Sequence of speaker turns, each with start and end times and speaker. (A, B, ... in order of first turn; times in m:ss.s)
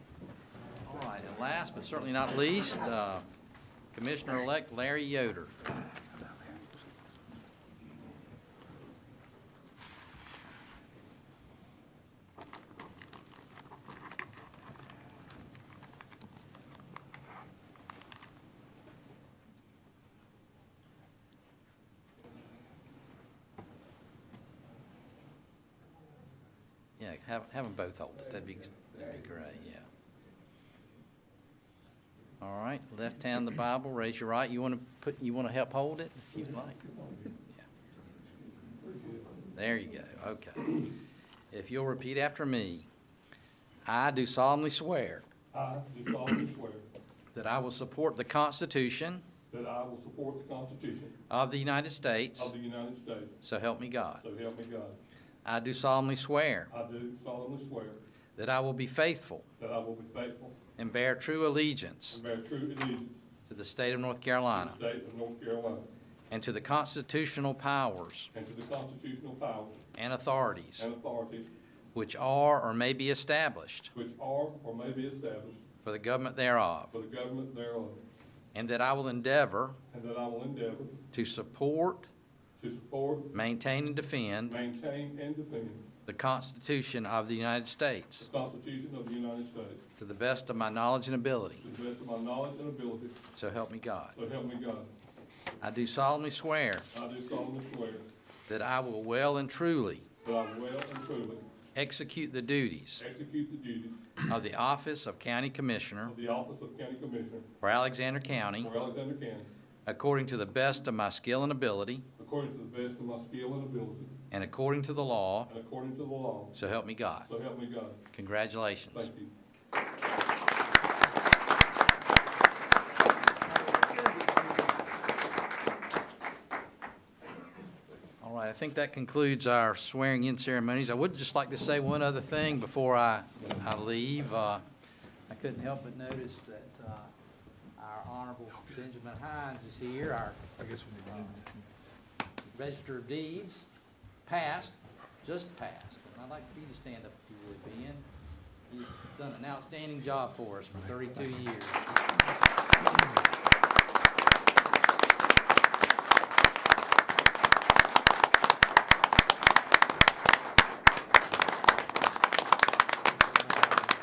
0:00.8-0:03.3 A
0:03.9-0:05.5 A
0:27.0-0:29.9 A
0:32.4-0:36.8 A
0:39.5-0:40.8 A
0:41.5-0:42.9 A
0:43.9-0:45.2 A
0:45.5-0:46.8 B
0:47.3-0:49.2 A
0:49.5-0:51.1 B
0:51.3-0:52.5 A
0:52.4-0:53.3 B
0:53.4-0:54.2 A
0:54.2-0:55.0 B
0:55.4-0:56.7 A
0:56.7-0:58.0 B
0:58.4-0:59.5 A
0:59.6-1:00.6 B
1:00.8-1:02.2 A
1:02.1-1:03.1 B
1:03.5-1:04.8 A
1:04.5-1:05.9 B
1:06.3-1:08.3 A
1:08.3-1:09.8 B
1:10.0-1:10.9 A
1:10.8-1:11.5 B
1:11.9-1:13.9 A
1:13.9-1:15.6 B
1:15.8-1:16.9 A
1:16.9-1:18.0 B
1:18.5-1:19.8 A
1:19.9-1:21.0 B
1:21.1-1:22.1 A
1:22.6-1:23.3 B
1:23.3-1:24.6 A
1:24.5-1:25.8 B
1:26.1-1:28.3 A
1:28.2-1:29.8 B
1:30.0-1:31.6 A
1:31.6-1:33.2 B
1:33.3-1:34.2 A
1:34.2-1:34.9 B
1:35.6-1:36.9 A
1:36.9-1:38.0 B
1:38.5-1:40.1 A
1:40.2-1:41.4 B
1:41.8-1:43.0 A
1:43.0-1:44.0 B
1:44.3-1:46.1 A
1:46.1-1:47.5 B
1:47.6-1:48.7 A
1:48.6-1:49.5 B
1:49.9-1:52.0 A
1:52.2-1:54.1 B
1:54.3-1:55.5 A
1:55.5-1:56.6 B
1:56.5-1:57.3 A
1:57.2-1:58.0 B
1:58.1-1:59.1 A
1:58.9-1:59.3 B
2:08.2-2:14.6 A
2:15.3-2:17.1 A
2:17.8-2:21.4 A
2:22.5-2:23.7 A
2:24.2-2:28.0 A
2:28.7-2:31.8 A